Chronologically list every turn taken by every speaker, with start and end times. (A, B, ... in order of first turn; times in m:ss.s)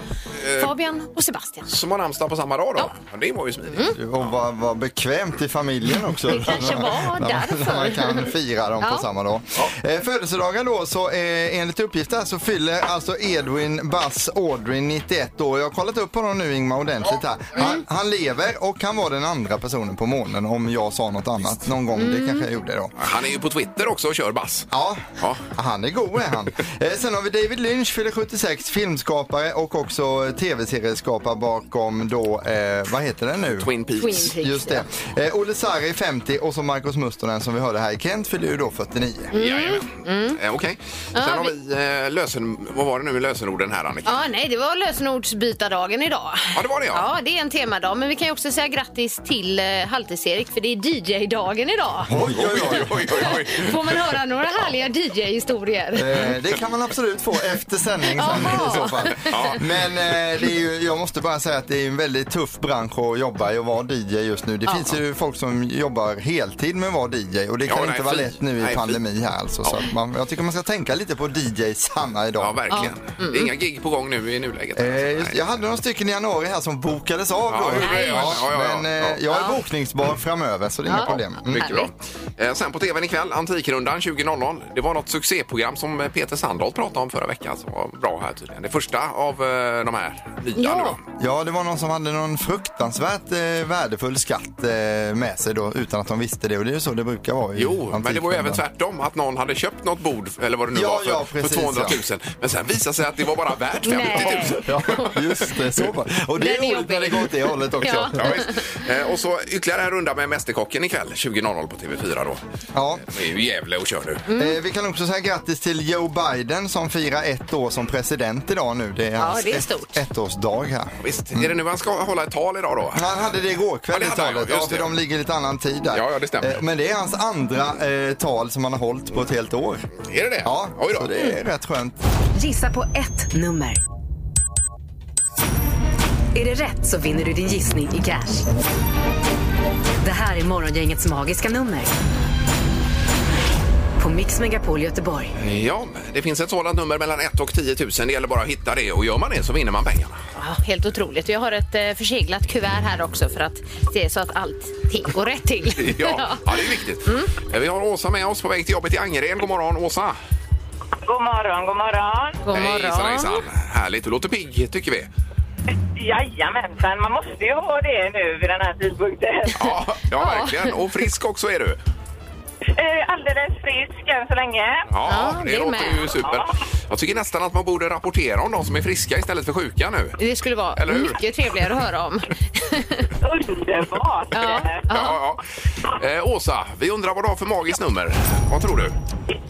0:00.4-0:00.7 A
0:00.5-0:01.7 B
0:01.7-0:04.0 A
0:03.7-0:04.0 B
0:03.9-0:22.9 C
0:06.3-0:08.3 B
0:08.8-0:09.0 B
0:22.0-0:22.5 B
0:23.0-0:25.4 A
0:24.7-0:39.3 C
0:33.6-0:34.3 A
0:34.0-0:34.8 B
0:39.3-0:40.4 B
0:39.3-0:44.2 A
0:41.1-0:41.5 B
0:44.0-0:52.1 B
0:46.5-0:47.1 A
0:52.1-0:53.4 C
0:52.2-0:54.0 A
0:53.1-0:56.3 B
0:55.9-1:12.6 C
0:58.2-0:59.5 B
0:58.4-1:00.0 A
1:04.6-1:04.9 B
1:07.6-1:09.0 A
1:12.4-1:15.4 A
1:12.7-1:13.5 B
1:14.8-1:21.7 C
1:17.5-1:19.2 A
1:17.8-1:18.4 B
1:19.3-1:19.6 B
1:20.8-1:21.9 B
1:21.5-1:31.0 A
1:30.6-1:31.0 B
1:31.2-1:38.6 C
1:37.6-1:45.3 A
1:40.7-1:42.0 C
1:43.8-1:45.2 B
1:44.2-1:48.3 C
1:46.4-1:48.6 B
1:48.1-1:52.4 A
1:52.7-1:53.0 C
1:53.0-1:54.3 A
1:54.3-1:54.6 B
1:54.4-2:01.5 C
1:59.2-1:59.9 B
2:01.0-2:03.0 A
2:02.9-2:09.9 C
2:03.9-2:04.9 A
2:05.9-2:06.6 A
2:10.0-2:11.1 A
2:10.4-2:12.0 C
2:12.3-2:13.8 D
2:16.3-2:18.4 D
2:20.0-2:21.9 D
2:24.0-2:25.3 D
2:25.4-2:30.2 A
2:30.4-2:37.3 B
2:35.8-2:40.2 A
2:41.0-2:42.4 E
2:42.4-2:43.4 B
2:42.5-2:45.1 A
2:45.9-2:49.7 E
2:49.6-2:51.8 A
2:50.1-2:50.8 B
2:52.7-2:54.9 E
2:54.9-3:00.2 A
2:55.1-2:56.1 B
2:56.2-2:56.6 E
3:00.2-3:03.1 B
3:00.7-3:01.7 A
3:03.2-3:04.9 E
3:04.3-3:05.2 B
3:04.4-3:09.0 A